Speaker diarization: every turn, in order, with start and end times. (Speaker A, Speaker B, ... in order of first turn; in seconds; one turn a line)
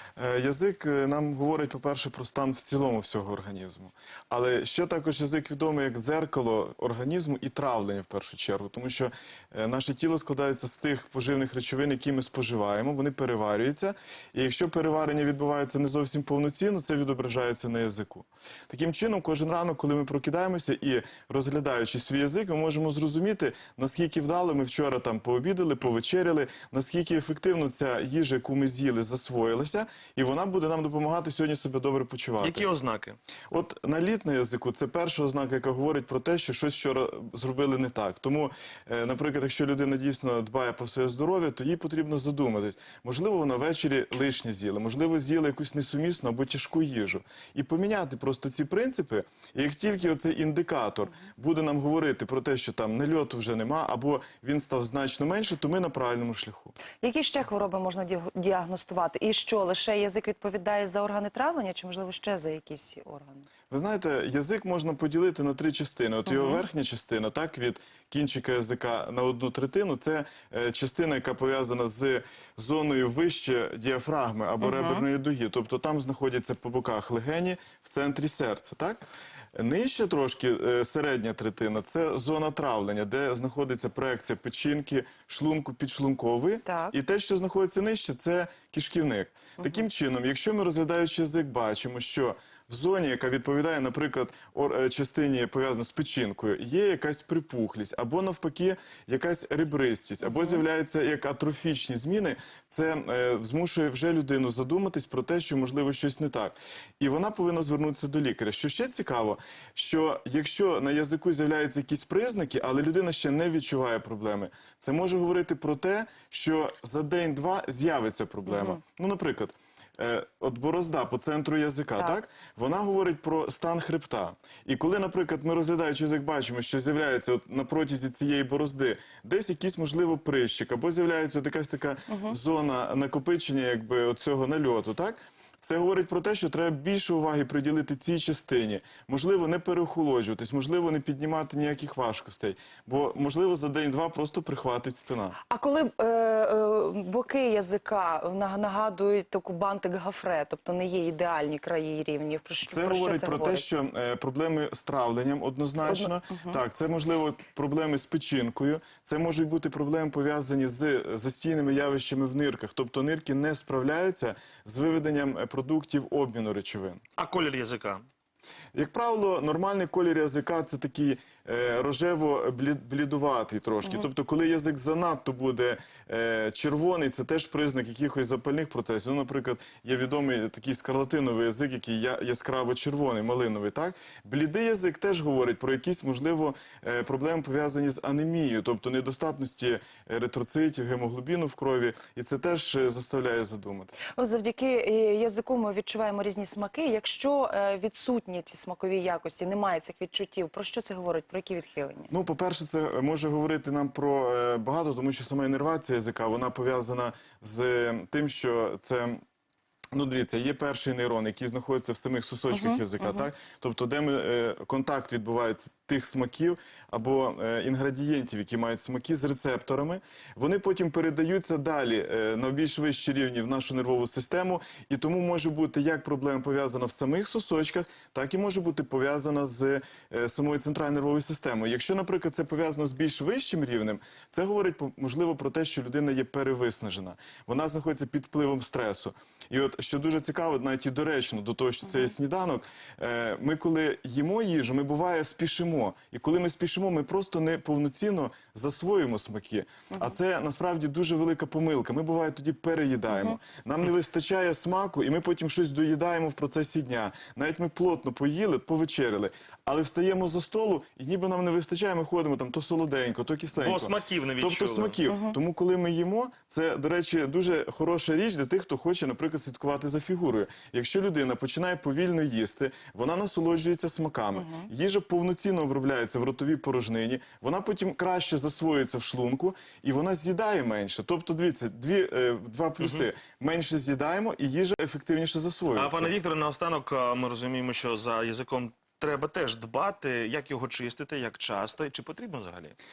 Speaker A: 0.2-32.7
Speaker B: 32.4-33.2
Speaker A: 33.5-56.8
Speaker C: 57.0-63.5
Speaker A: 63.7-79.0
Speaker C: 66.3-66.6
Speaker C: 74.6-75.0
Speaker A: 79.5-145.4
Speaker C: 86.7-86.9
Speaker C: 89.6-89.8
Speaker C: 100.2-100.6
Speaker C: 118.5-118.8
Speaker C: 132.1-132.3
Speaker C: 145.5-153.7
Speaker A: 152.7-167.0
Speaker C: 155.8-156.6
Speaker B: 167.2-168.0
Speaker A: 168.7-194.0
Speaker C: 194.1-202.1
Speaker A: 202.1-209.2
Speaker A: 209.9-286.1
Speaker C: 212.5-213.3
Speaker C: 249.9-250.2
Speaker C: 253.1-253.4
Speaker B: 263.5-265.0
Speaker C: 265.1-265.4
Speaker C: 274.3-274.7
Speaker B: 282.8-283.1
Speaker B: 285.7-292.8